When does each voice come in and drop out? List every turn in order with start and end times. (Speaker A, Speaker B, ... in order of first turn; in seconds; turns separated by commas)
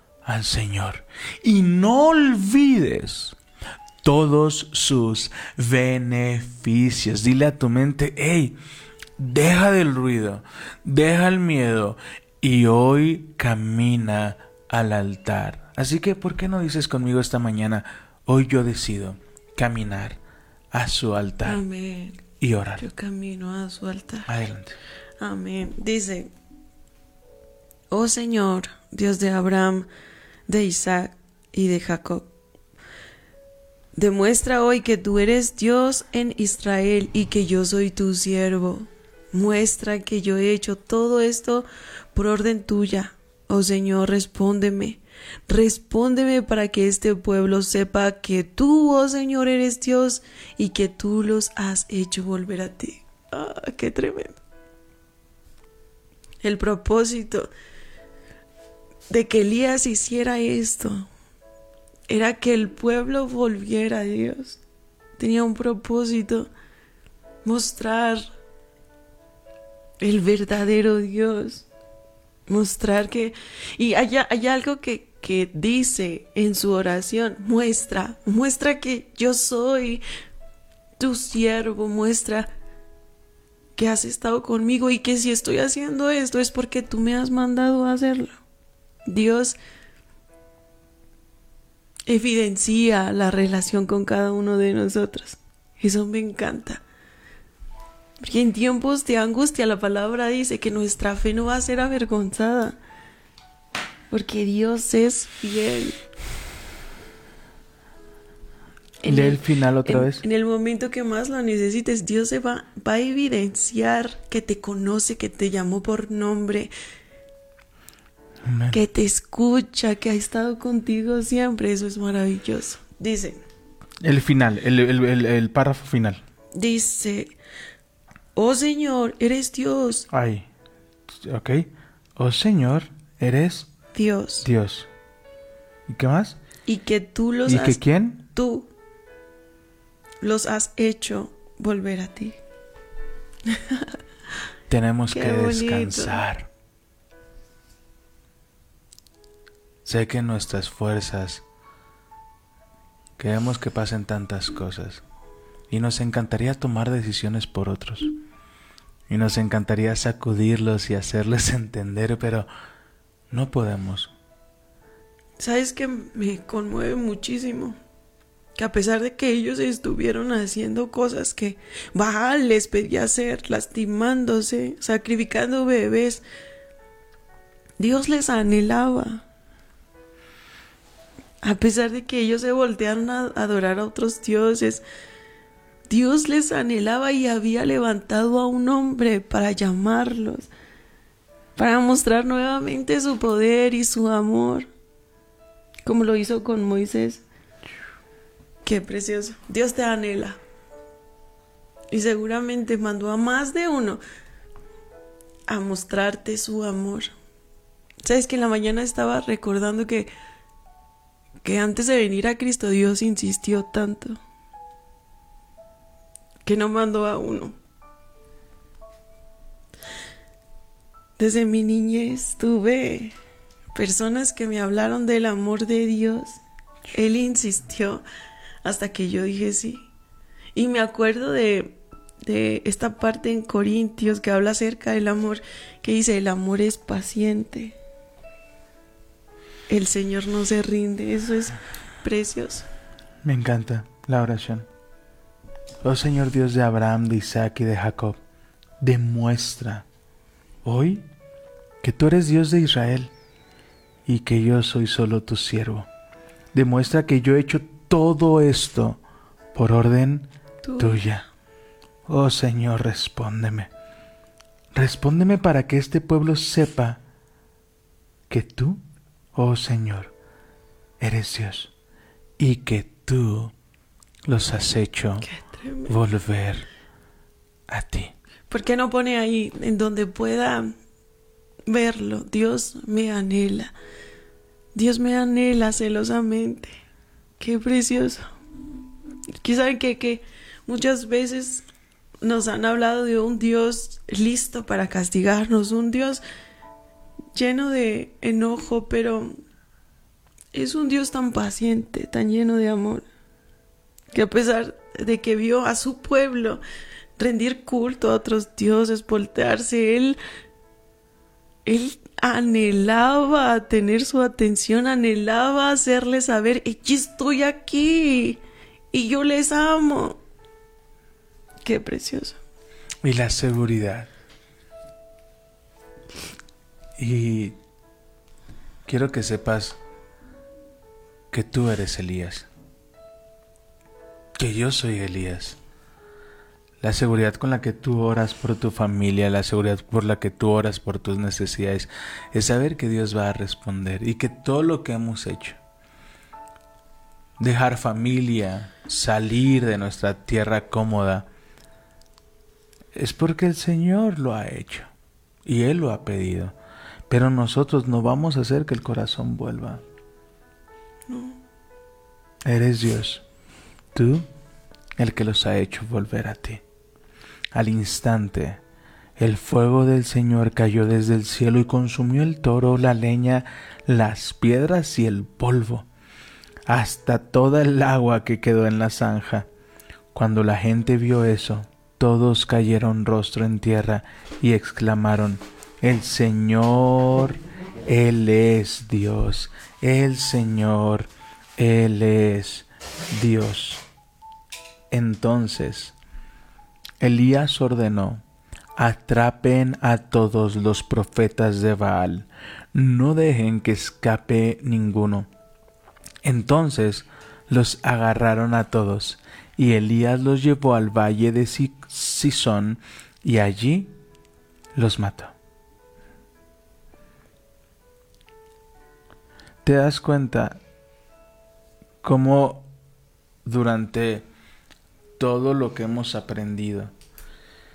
Speaker A: 0.2-3.4, Speaker A: 4.0-8.6, Speaker A: 9.2-20.2, Speaker A: 20.7-21.6, Speaker B: 21.4-22.2, Speaker A: 22.4-22.8, Speaker B: 22.8-24.3, Speaker A: 24.3-24.8, Speaker B: 25.2-26.3, Speaker B: 27.9-29.9, Speaker B: 30.5-32.3, Speaker B: 34.0-54.4, Speaker B: 56.4-57.5, Speaker B: 59.1-61.1, Speaker B: 62.1-64.6, Speaker B: 65.2-66.5, Speaker B: 67.5-68.2, Speaker B: 70.0-71.7, Speaker B: 72.5-80.0, Speaker B: 81.0-82.5, Speaker B: 83.8-88.4, Speaker B: 89.1-89.6, Speaker B: 92.1-96.8, Speaker B: 98.2-102.8, Speaker B: 104.1-106.0, Speaker B: 109.0-116.7, Speaker A: 109.0-110.2, Speaker A: 118.4-118.8, Speaker B: 118.7-123.4, Speaker A: 124.0-126.2, Speaker B: 126.5-127.3, Speaker B: 128.3-130.1, Speaker A: 130.1-130.5, Speaker A: 131.1-133.7, Speaker B: 133.9-134.5, Speaker A: 134.4-134.9, Speaker A: 135.9-136.4, Speaker B: 136.7-138.7, Speaker A: 137.5-138.2, Speaker B: 140.2-142.4, Speaker B: 143.5-143.8, Speaker A: 144.7-146.5, Speaker B: 145.1-146.2, Speaker A: 149.8-151.4, Speaker A: 153.2-155.0, Speaker A: 155.7-158.2, Speaker A: 159.1-162.5, Speaker A: 163.3-164.1, Speaker B: 165.4-167.8, Speaker B: 168.6-176.2, Speaker B: 177.8-179.2, Speaker B: 181.4-184.8, Speaker B: 185.9-190.5, Speaker B: 191.6-194.7, Speaker B: 195.9-197.2, Speaker B: 198.6-200.4, Speaker B: 201.9-204.0, Speaker B: 205.5-207.1, Speaker B: 208.0-210.1, Speaker B: 211.4-214.2, Speaker B: 216.4-217.6, Speaker B: 221.2-223.2, Speaker B: 223.7-226.4, Speaker B: 226.9-228.0, Speaker B: 228.6-229.9, Speaker B: 230.6-237.8, Speaker B: 239.7-242.7, Speaker A: 243.2-244.7, Speaker A: 245.8-248.2, Speaker A: 248.8-249.8, Speaker A: 250.6-251.1, Speaker A: 251.8-253.1, Speaker A: 254.1-255.9, Speaker A: 256.5-259.0, Speaker A: 259.5-261.3, Speaker B: 260.6-261.0, Speaker A: 262.1-263.7, Speaker A: 264.7-267.0, Speaker A: 268.3-268.8, Speaker A: 269.4-270.1, Speaker A: 271.0-271.7, Speaker A: 272.4-273.5, Speaker A: 274.3-275.3, Speaker B: 275.2-276.0, Speaker A: 275.9-276.7, Speaker A: 277.7-278.1, Speaker B: 278.5-280.8, Speaker B: 281.7-283.7, Speaker B: 284.7-286.8, Speaker B: 287.4-288.3, Speaker B: 289.4-291.6, Speaker B: 292.2-296.2, Speaker B: 297.3-299.4, Speaker B: 300.5-303.0, Speaker B: 304.1-306.6, Speaker B: 307.2-310.2, Speaker B: 311.7-318.4, Speaker B: 318.9-320.2, Speaker B: 321.6-322.4, Speaker A: 323.0-324.1, Speaker A: 327.0-327.6, Speaker A: 328.9-329.8, Speaker A: 331.3-332.5, Speaker A: 334.4-335.6, Speaker A: 336.8-345.6, Speaker A: 347.4-351.3, Speaker A: 352.9-354.9, Speaker A: 355.5-356.5, Speaker A: 357.1-359.8, Speaker B: 361.1-361.4, Speaker A: 362.4-363.2, Speaker A: 363.9-364.3, Speaker A: 365.0-366.6, Speaker A: 367.5-368.6, Speaker A: 369.2-375.9, Speaker A: 376.7-379.5, Speaker A: 380.1-393.8, Speaker A: 394.9-395.9, Speaker A: 397.0-398.2, Speaker A: 398.8-405.3, Speaker A: 406.2-413.9, Speaker A: 414.7-415.3, Speaker A: 419.6-420.6, Speaker A: 422.0-422.7, Speaker A: 423.4-424.3, Speaker A: 425.2-426.9